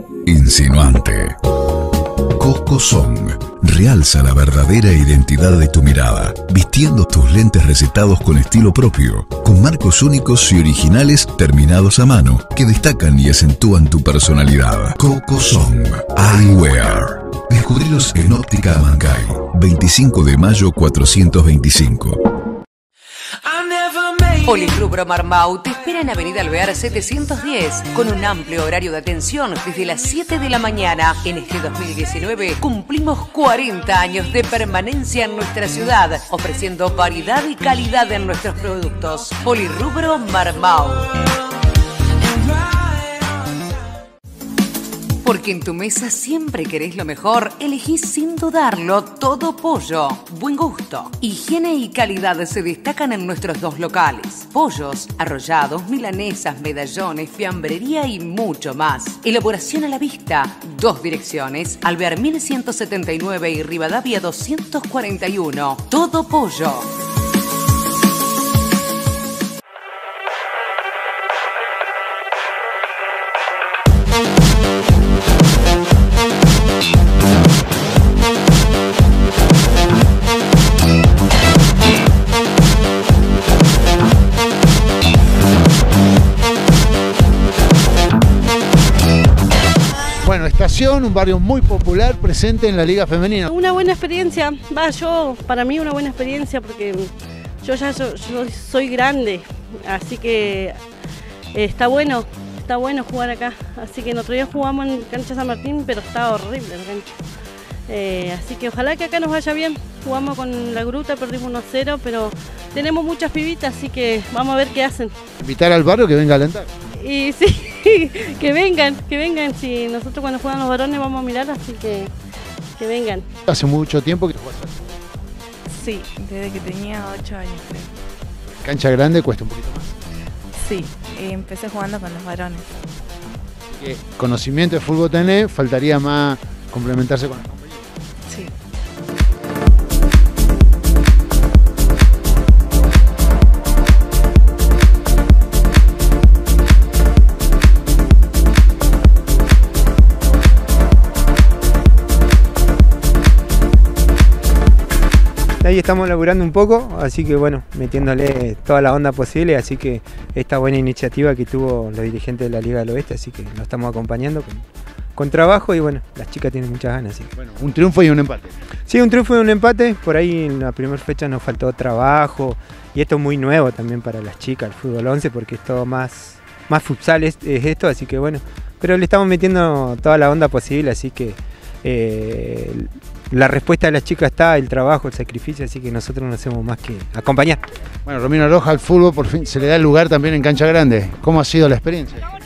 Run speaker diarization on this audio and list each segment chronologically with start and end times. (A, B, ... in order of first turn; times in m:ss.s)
0:00.3-0:01.4 A
0:02.4-0:22.2 A
0:24.4-0:41.1 B
0:45.2-1:06.9 B
1:30.2-1:33.5 C
1:33.5-1:40.9 D
1:41.5-1:47.2 D
1:47.9-1:55.1 D
1:55.4-1:56.7 C
1:56.9-2:02.1 D
2:02.8-2:03.3 D
2:03.5-2:04.8 C
2:05.7-2:07.9 E
2:08.5-2:09.9 C
2:10.6-2:12.7 E
2:13.7-2:17.8 C
2:35.6-2:44.6 F
2:45.2-2:47.3 F
2:47.4-2:48.5 C
2:48.9-3:07.6 F
3:08.1-3:12.2 C